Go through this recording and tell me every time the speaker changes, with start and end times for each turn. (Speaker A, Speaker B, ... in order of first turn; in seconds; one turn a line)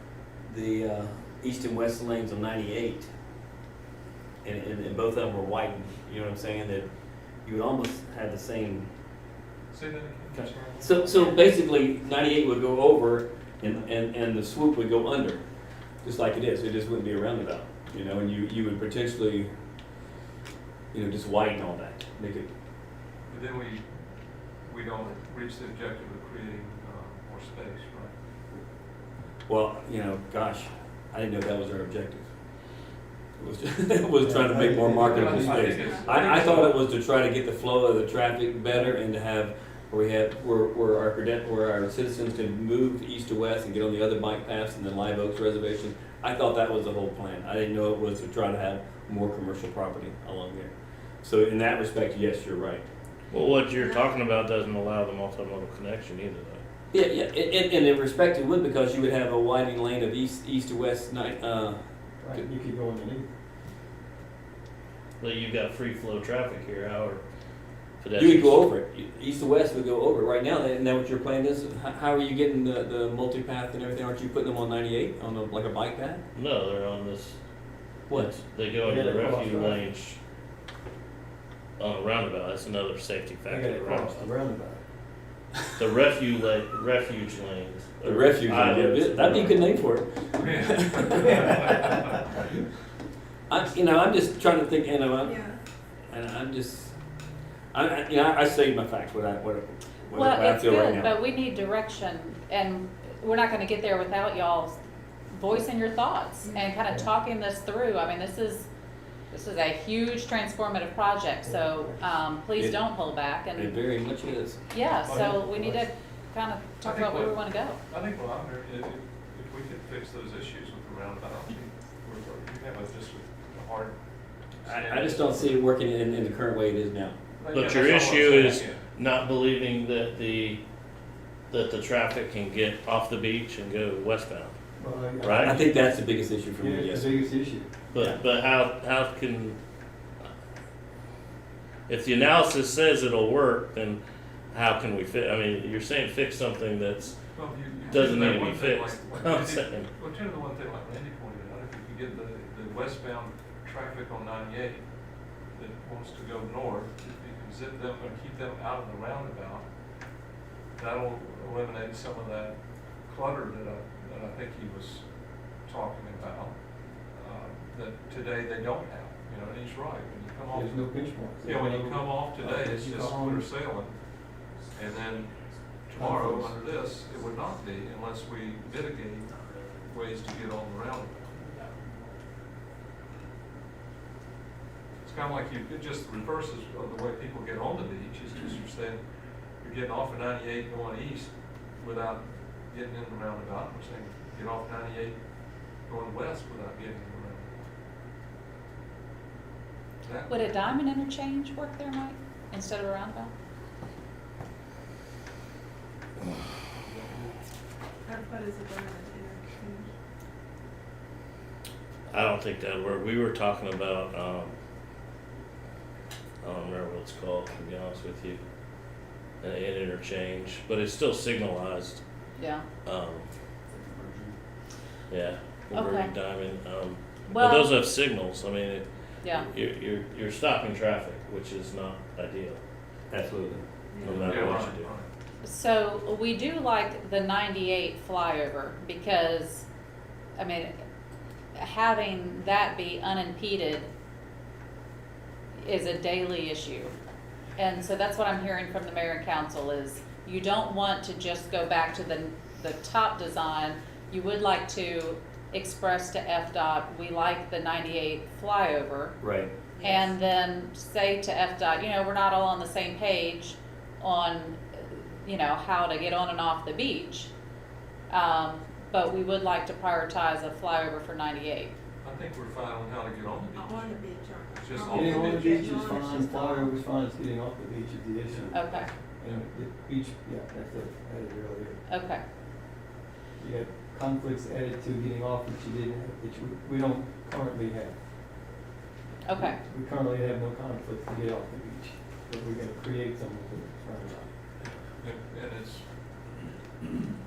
Speaker A: 0.5-3.1
Speaker A: 4.4-6.8
Speaker A: 7.4-8.9
Speaker B: 9.7-11.3
Speaker A: 10.4-15.4
Speaker A: 16.0-19.5
Speaker A: 20.9-22.5
Speaker B: 23.3-23.9
Speaker B: 24.6-28.1
Speaker A: 29.5-32.3
Speaker A: 33.4-50.7
Speaker C: 34.2-36.0
Speaker B: 35.0-36.8
Speaker A: 51.2-52.9
Speaker D: 53.3-56.6
Speaker E: 53.8-54.1
Speaker A: 56.9-61.8
Speaker C: 62.2-63.3
Speaker D: 65.2-67.2
Speaker D: 68.0-68.7
Speaker A: 68.2-76.2
Speaker D: 76.3-77.4
Speaker D: 78.1-80.2
Speaker C: 78.8-79.8
Speaker D: 81.8-84.3
Speaker C: 83.5-84.8
Speaker D: 85.8-89.7
Speaker A: 88.0-91.8
Speaker B: 90.3-92.5
Speaker A: 93.5-95.4
Speaker E: 95.2-95.6
Speaker A: 96.1-96.9
Speaker A: 97.7-101.2
Speaker F: 100.1-104.8
Speaker F: 105.3-108.7
Speaker E: 106.5-106.7
Speaker F: 109.3-113.8
Speaker C: 111.4-112.0
Speaker A: 113.5-114.6
Speaker F: 114.7-117.8
Speaker B: 114.9-115.3
Speaker C: 115.1-115.8
Speaker B: 116.8-123.9
Speaker B: 124.6-125.6
Speaker A: 124.7-127.2
Speaker B: 127.4-128.8
Speaker D: 127.5-130.6
Speaker D: 131.5-134.6
Speaker C: 134.8-135.6
Speaker D: 135.2-135.6
Speaker A: 135.4-137.2
Speaker C: 136.6-137.7
Speaker D: 137.9-139.6
Speaker D: 141.9-144.0
Speaker D: 144.5-147.2
Speaker B: 147.3-154.8
Speaker D: 147.9-149.9
Speaker B: 155.5-159.7
Speaker B: 160.8-162.6
Speaker B: 163.1-165.1
Speaker B: 165.7-166.5
Speaker B: 167.1-170.9
Speaker C: 170.5-173.5
Speaker B: 171.4-173.9
Speaker B: 174.8-175.3
Speaker B: 175.9-179.3
Speaker C: 176.0-176.6
Speaker B: 179.9-181.3
Speaker B: 185.0-189.0
Speaker B: 189.6-195.2
Speaker B: 195.9-197.5
Speaker B: 200.0-200.7
Speaker F: 200.3-203.3
Speaker B: 206.6-207.4
Speaker E: 208.1-209.9
Speaker D: 212.1-214.6
Speaker D: 216.4-218.4
Speaker D: 219.4-222.0
Speaker F: 222.4-222.7
Speaker D: 222.8-223.3
Speaker A: 224.0-224.3
Speaker D: 225.1-232.6
Speaker F: 225.7-226.1
Speaker F: 227.3-227.7
Speaker F: 229.2-229.5
Speaker A: 233.1-233.7
Speaker E: 234.0-234.3
Speaker D: 234.0-234.9
Speaker B: 234.2-235.1
Speaker F: 235.4-239.7
Speaker F: 240.4-240.7
Speaker F: 241.6-243.9
Speaker F: 245.6-246.9
Speaker F: 247.6-259.1
Speaker A: 259.2-259.5
Speaker E: 259.8-260.2
Speaker F: 259.8-267.3
Speaker F: 268.1-271.7
Speaker B: 272.0-275.6
Speaker E: 273.6-276.7
Speaker C: 274.9-281.8
Speaker B: 278.3-279.5
Speaker F: 278.5-278.9
Speaker F: 281.9-282.2
Speaker C: 283.4-288.0
Speaker F: 289.2-289.6
Speaker C: 289.4-294.3
Speaker B: 294.6-295.9